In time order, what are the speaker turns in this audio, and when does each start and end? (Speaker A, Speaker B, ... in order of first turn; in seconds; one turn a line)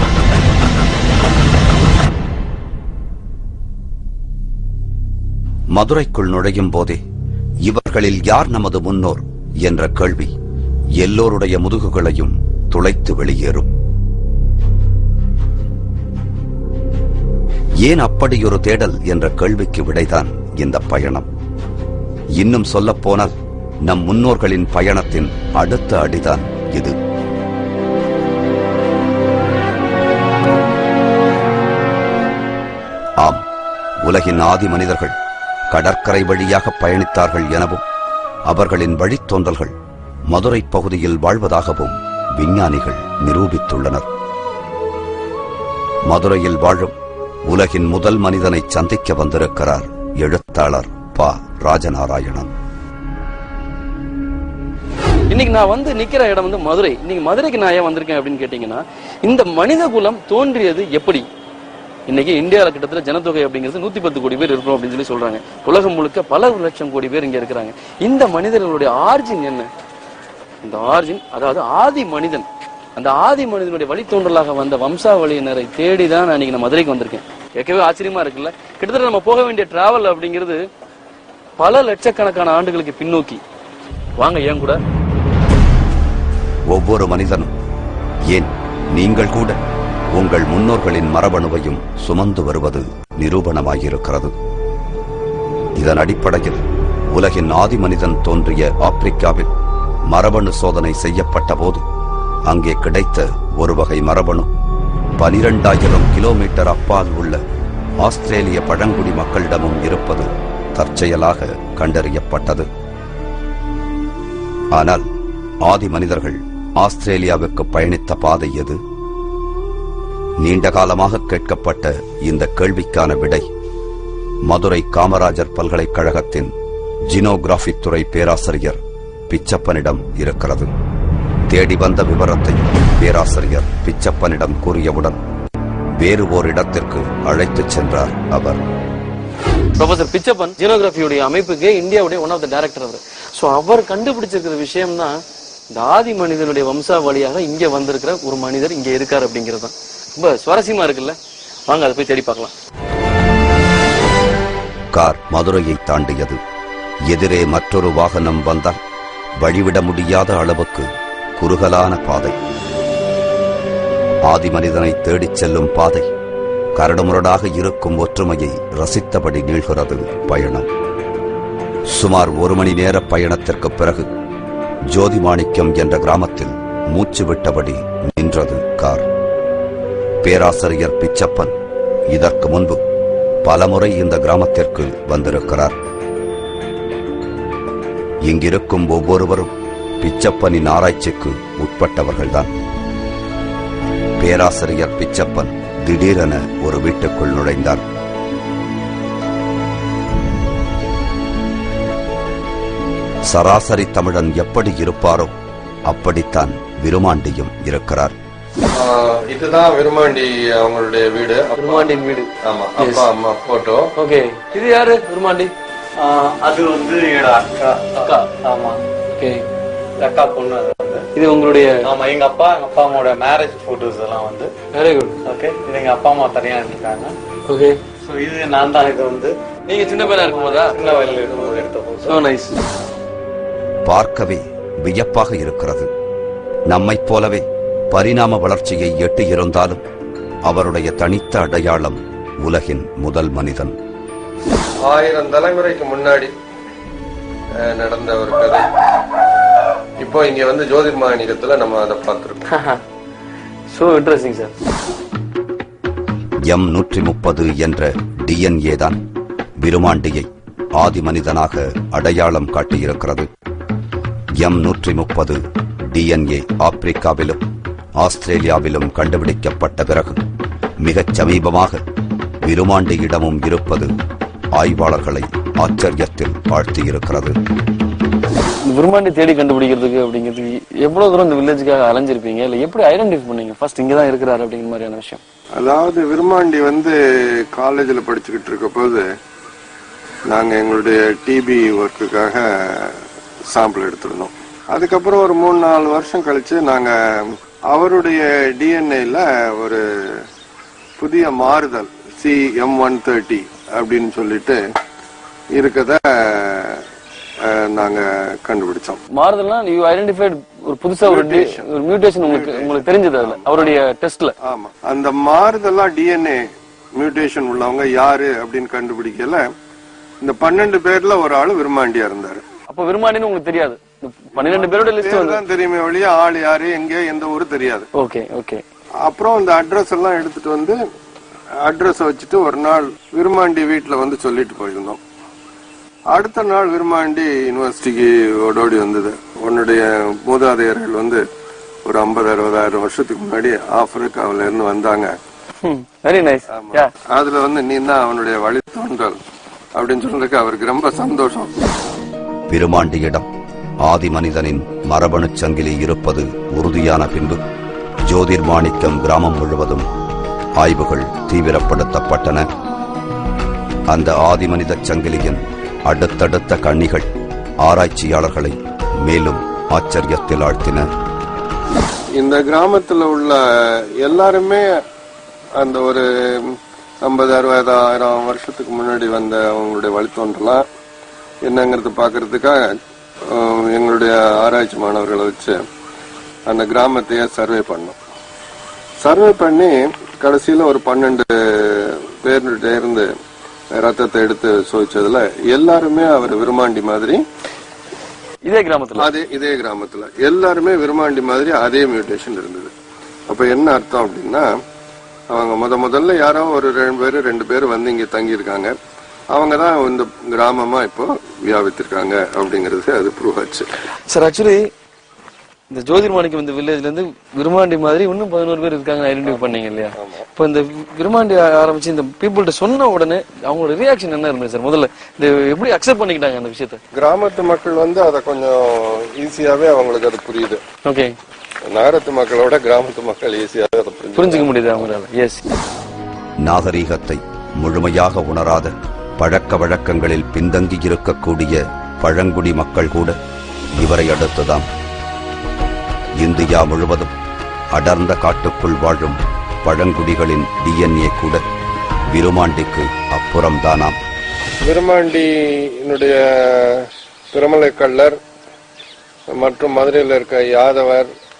Speaker A: 5.7-7.0
Speaker A: 7.6-10.3
Speaker A: 11.0-13.7
Speaker A: 17.8-21.3
Speaker A: 22.4-27.0
Speaker A: 34.0-35.2
Speaker A: 35.7-37.8
Speaker A: 38.5-39.8
Speaker A: 40.3-44.1
Speaker A: 46.1-52.5
Speaker B: 55.3-61.3
Speaker B: 62.1-69.7
Speaker B: 70.6-80.7
Speaker B: 81.6-83.4
Speaker B: 84.2-84.8
Speaker A: 86.7-87.5
Speaker A: 88.3-89.6
Speaker A: 90.1-94.3
Speaker A: 95.8-99.5
Speaker A: 100.1-101.8
Speaker A: 102.5-104.5
Speaker A: 105.2-107.4
Speaker A: 108.0-112.7
Speaker A: 114.7-115.0
Speaker A: 115.6-118.8
Speaker A: 120.4-123.5
Speaker A: 124.5-126.5
Speaker A: 127.1-130.7
Speaker A: 131.5-135.2
Speaker A: 136.0-138.6
Speaker B: 139.8-145.2
Speaker B: 145.7-152.5
Speaker A: 154.9-156.4
Speaker A: 157.1-158.8
Speaker A: 159.4-162.4
Speaker A: 164.3-166.1
Speaker A: 166.8-170.7
Speaker A: 171.9-174.1
Speaker A: 174.9-179.1
Speaker A: 180.2-181.5
Speaker A: 182.1-182.8
Speaker A: 183.4-185.8
Speaker A: 188.2-192.5
Speaker A: 194.2-197.8
Speaker A: 203.3-205.3
Speaker A: 205.9-208.2
Speaker C: 208.7-211.9
Speaker B: 211.6-213.1
Speaker C: 212.4-213.9
Speaker B: 214.0-215.5
Speaker D: 216.0-218.8
Speaker B: 218.0-218.3
Speaker B: 219.2-219.5
Speaker D: 220.0-221.1
Speaker B: 221.1-221.8
Speaker D: 221.8-224.5
Speaker B: 224.7-225.2
Speaker D: 225.2-227.2
Speaker B: 227.5-227.8
Speaker D: 228.0-229.3
Speaker B: 229.7-232.6
Speaker D: 229.9-232.2
Speaker A: 233.9-235.9
Speaker A: 236.7-239.8
Speaker A: 240.4-243.8
Speaker C: 244.8-246.3
Speaker C: 247.6-248.7
Speaker C: 250.0-252.4
Speaker B: 252.5-252.8
Speaker B: 253.7-254.5
Speaker A: 256.4-259.0
Speaker A: 259.6-263.3
Speaker A: 264.4-265.4
Speaker A: 265.9-267.4
Speaker A: 268.0-270.2
Speaker A: 270.8-271.8
Speaker A: 272.4-273.9
Speaker A: 274.5-277.4
Speaker B: 278.5-285.2
Speaker C: 285.6-289.1
Speaker C: 290.3-293.0
Speaker C: 293.5-300.2
Speaker C: 301.0-304.6
Speaker C: 305.5-306.8
Speaker C: 307.5-309.0
Speaker B: 309.1-314.3
Speaker C: 311.1-311.6
Speaker C: 312.2-313.8
Speaker C: 314.4-316.4
Speaker C: 317.0-319.4
Speaker C: 320.2-322.4
Speaker B: 322.7-325.4
Speaker C: 324.4-327.9
Speaker B: 327.9-328.6
Speaker C: 329.0-330.8
Speaker C: 331.6-335.0
Speaker C: 336.1-341.2
Speaker C: 341.9-345.2
Speaker B: 345.6-346.9
Speaker C: 346.5-349.2
Speaker C: 349.7-351.5
Speaker A: 352.5-353.3
Speaker A: 353.8-357.4
Speaker A: 358.0-359.9
Speaker A: 360.6-362.4
Speaker A: 363.9-367.1
Speaker A: 367.6-370.9
Speaker C: 372.2-374.7
Speaker C: 375.6-380.6
Speaker C: 381.4-382.6
Speaker C: 383.3-385.6
Speaker C: 386.5-388.0
Speaker C: 389.0-393.1
Speaker C: 393.7-397.2
Speaker B: 398.4-399.1
Speaker C: 399.0-402.7
Speaker C: 403.3-404.5
Speaker C: 405.3-408.8
Speaker C: 409.3-413.7
Speaker B: 414.1-414.7
Speaker B: 415.7-426.8
Speaker C: 419.3-420.3
Speaker C: 426.9-430.6
Speaker B: 430.8-431.2
Speaker C: 431.6-434.6
Speaker B: 434.1-435.4
Speaker A: 436.4-443.2
Speaker A: 443.8-444.7
Speaker A: 446.2-447.1
Speaker A: 447.7-451.4
Speaker A: 452.1-454.0
Speaker C: 454.6-458.2
Speaker C: 459.3-461.1